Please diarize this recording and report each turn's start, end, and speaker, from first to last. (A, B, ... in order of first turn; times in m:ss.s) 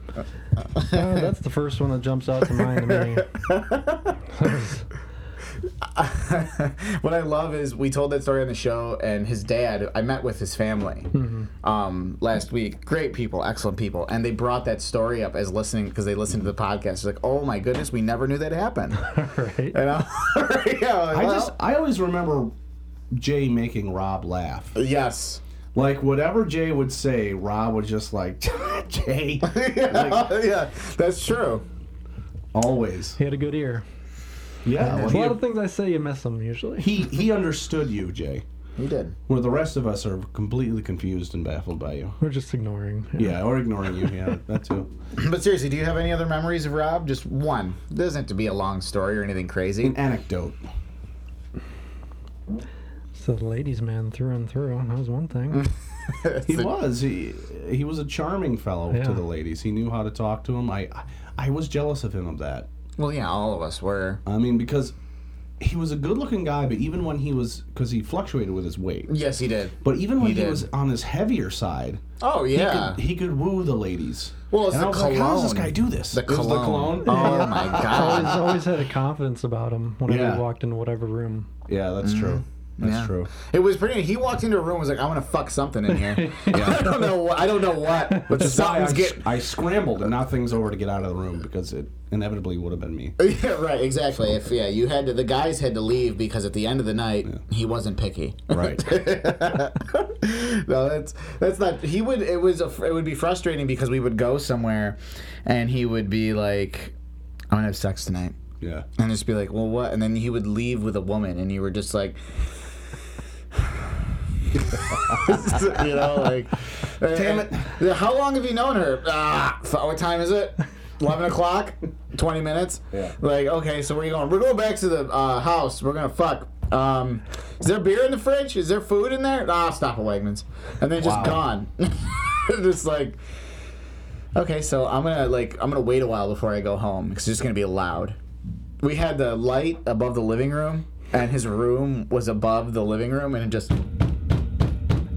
0:00.8-0:01.1 A
0:00.8-0:03.3 B
0:02.9-0:04.2 A
0:04.3-0:04.8 B
0:05.9-0:11.1 A
0:11.1-0:11.5 B
0:11.6-0:19.1 A
0:19.0-0:19.8 B
0:19.7-0:21.5 A
0:21.1-0:22.5 C
0:23.1-0:24.8 C
0:24.8-0:25.4 A
0:25.8-0:30.3 C
0:29.4-0:31.6 A
0:32.5-0:33.2 C
0:33.2-0:33.8 B
0:34.6-0:35.4 C
0:34.8-0:35.2 A
0:35.0-0:36.9 B
0:36.8-0:38.4 C
0:38.8-0:39.2 A
0:39.3-0:42.2 C
0:42.2-0:43.4 B
0:43.2-0:44.9 C
0:45.2-0:50.0 A
0:49.8-0:50.6 C
0:53.1-0:55.7 B
0:55.5-0:56.7 A
0:56.5-1:02.7 C
0:58.9-0:59.2 B
1:03.0-1:04.2 A
1:04.3-1:05.0 C
1:05.6-1:09.1 C
1:09.1-1:10.7 A
1:09.8-1:12.0 C
1:12.2-1:13.0 A
1:12.5-1:18.4 C
1:14.5-1:18.4 A
1:17.0-1:21.5 B
1:20.1-1:20.4 C
1:21.7-1:23.3 C
1:22.0-1:29.3 A
1:25.9-1:27.1 B
1:26.5-1:26.8 C
1:28.1-1:28.4 B
1:28.3-1:33.2 C
1:33.2-1:47.0 A
1:38.5-1:38.9 C
1:47.5-1:48.4 A
1:48.6-1:48.9 C
1:49.0-1:52.2 A
1:53.5-1:54.0 A
1:54.5-2:13.2 A
1:54.9-1:55.5 C
1:57.1-1:57.8 C
2:11.0-2:11.4 C
2:14.4-2:18.2 A
2:18.8-2:23.8 A